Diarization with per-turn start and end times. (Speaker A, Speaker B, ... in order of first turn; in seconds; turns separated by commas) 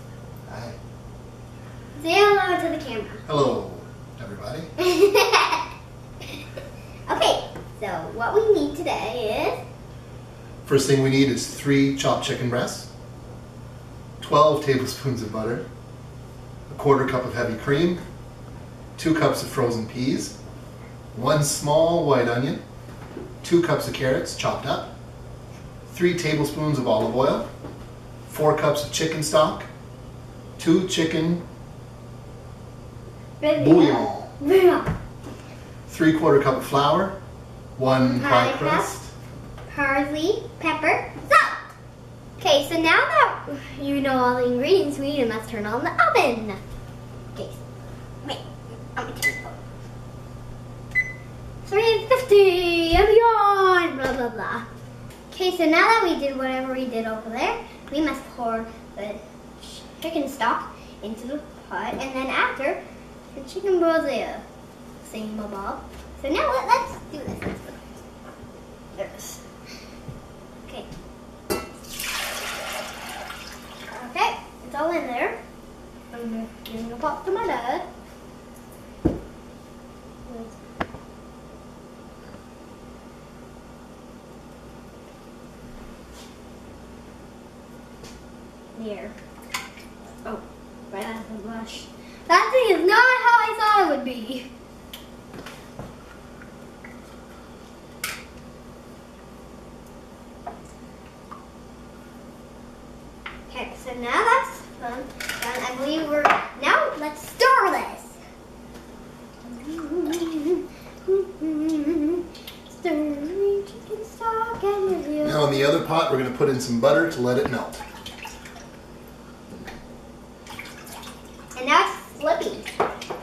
Speaker A: 0.5-0.8, Speaker B: 2.0-3.2, Speaker A: 3.3-4.7, Speaker B: 4.8-5.7, Speaker B: 7.1-9.6, Speaker A: 10.7-12.9, Speaker A: 14.2-15.7, Speaker A: 16.7-18.0, Speaker A: 19.0-20.4, Speaker A: 21.1-22.6, Speaker A: 23.4-24.9, Speaker A: 25.9-27.5, Speaker A: 28.3-29.7, Speaker A: 30.6-31.4, Speaker B: 33.4-34.9, Speaker A: 33.6-34.3, Speaker A: 35.9-37.2, Speaker A: 37.8-39.1, Speaker B: 38.0-38.9, Speaker B: 39.7-41.6, Speaker B: 42.4-46.6, Speaker B: 47.3-47.6, Speaker B: 49.0-49.5, Speaker B: 51.6-54.6, Speaker B: 55.3-62.8, Speaker B: 63.3-64.4, Speaker B: 65.0-67.8, Speaker B: 68.9-69.4, Speaker B: 73.9-75.4, Speaker B: 76.1-77.9, Speaker B: 80.3-80.6, Speaker B: 88.8-89.1, Speaker B: 90.2-94.5, Speaker B: 103.5-108.2, Speaker B: 109.4-115.5, Speaker A: 115.2-117.8, Speaker B: 121.5-122.7